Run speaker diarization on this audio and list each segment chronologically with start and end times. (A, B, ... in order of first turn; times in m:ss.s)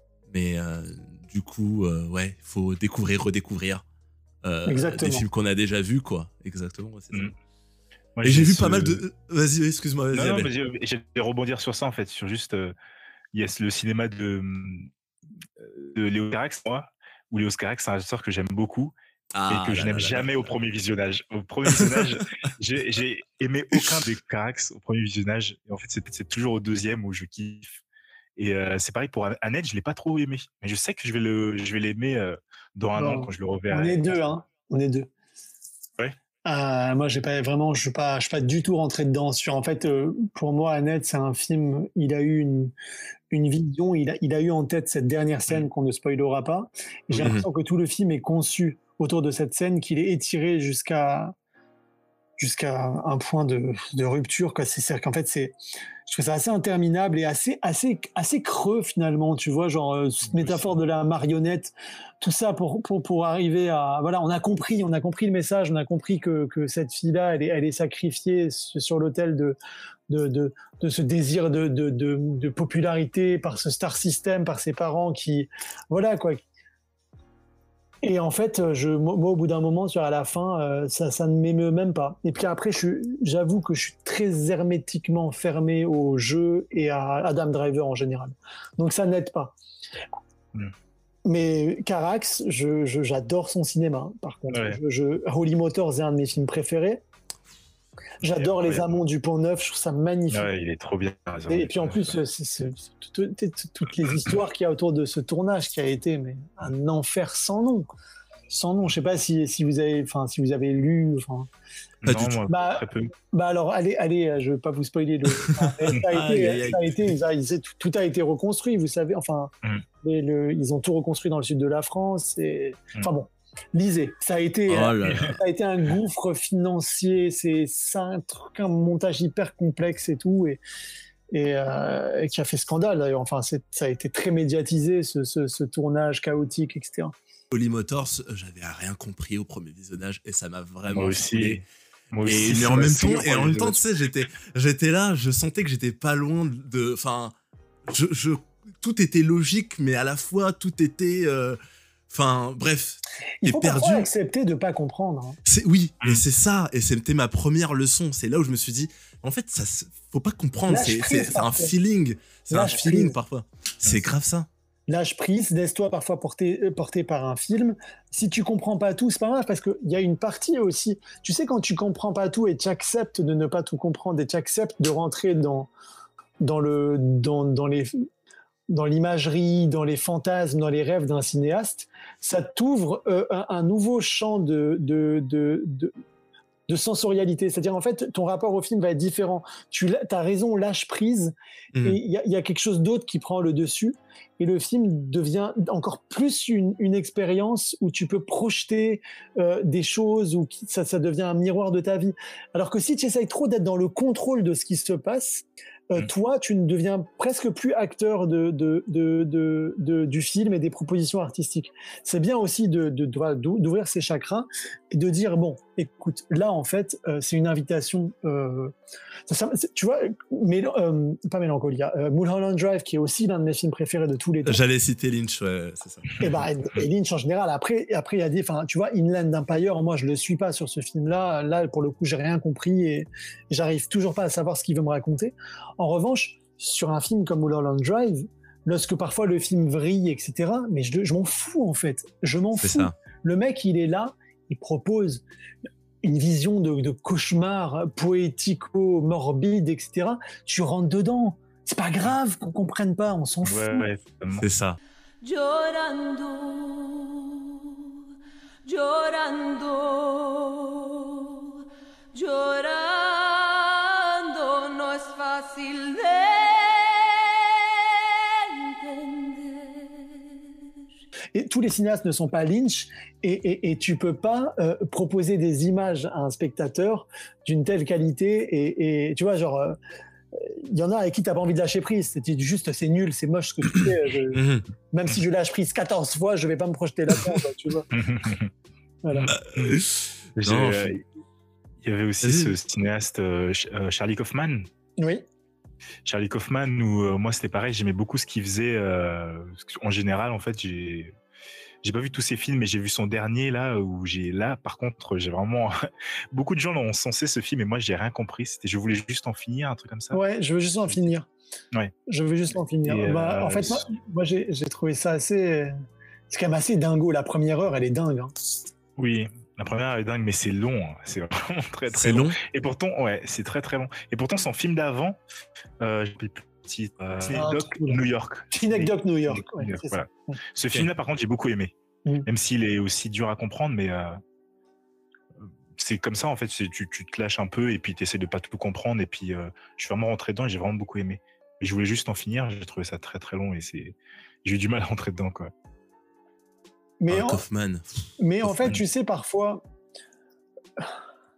0:00.3-0:03.8 A
0:04.4-0:07.3 A
0:04.7-0:05.2 B
0:08.2-0:09.0 C
0:08.2-0:10.5 A
0:10.1-0:12.7 C
0:13.3-0:14.9 C
0:15.6-0:18.9 C
0:19.3-0:20.5 A
0:19.5-0:27.8 C
0:21.7-0:22.2 A
0:28.4-0:34.3 C
0:33.0-0:35.1 B
0:36.4-0:42.7 B
0:43.3-0:51.3 B
0:47.2-0:47.4 A
0:52.4-0:55.5 B
0:56.1-1:09.6 B
1:00.3-1:00.8 C
1:10.1-1:16.4 B
1:18.0-1:29.6 B
1:31.2-1:37.0 B
1:34.5-1:34.8 C
1:38.2-1:40.5 B
1:38.2-1:38.8 C
1:40.3-1:42.2 C
1:41.5-1:47.9 B
1:48.5-1:51.5 B
1:52.0-1:53.1 C
1:52.0-1:52.4 A
1:52.5-2:10.6 B
1:55.6-1:57.0 A
2:04.7-2:05.4 A
2:11.3-2:17.1 B
2:17.5-2:21.6 A
2:20.9-2:21.6 C
2:22.1-2:23.8 C
2:22.2-2:27.3 A
2:27.9-2:31.6 A
2:32.1-2:34.1 A
2:33.4-2:35.4 B
2:35.4-2:44.5 A
2:40.7-2:41.7 B
2:42.5-2:43.2 B
2:44.9-2:55.7 B
2:56.4-2:58.0 B
2:58.7-3:05.9 B
3:06.7-3:38.7 B
3:39.3-3:44.6 B
3:44.4-3:46.4 A
3:46.2-4:05.2 B
4:02.6-4:02.9 A
4:06.0-4:13.8 B
4:13.4-4:14.5 C
4:14.3-4:14.8 A
4:15.2-4:17.8 D
4:18.6-4:21.6 D
4:22.1-4:27.2 D
4:28.6-4:30.4 D
4:31.3-4:39.8 B
4:40.3-4:47.9 B
4:44.3-4:44.6 A
4:47.9-4:48.5 C
4:49.0-4:49.3 B
4:49.3-4:50.9 A
4:49.5-4:49.8 C
4:50.4-4:51.0 C
4:51.8-4:54.6 C
4:52.2-4:52.5 A
4:55.0-4:55.2 B
4:56.0-5:01.1 C
5:01.8-5:05.7 C
5:06.3-5:10.2 C
5:10.1-5:11.3 B
5:12.1-5:15.7 B
5:12.8-5:13.9 C
5:16.3-5:18.3 B
5:19.0-5:25.2 C
5:21.9-5:22.4 A
5:25.8-5:31.7 C
5:27.2-5:27.5 A
5:27.3-5:30.4 B
5:32.2-5:34.2 C
5:35.8-5:45.5 C
5:47.0-5:47.4 B
5:47.1-5:48.8 A
5:48.2-5:49.6 B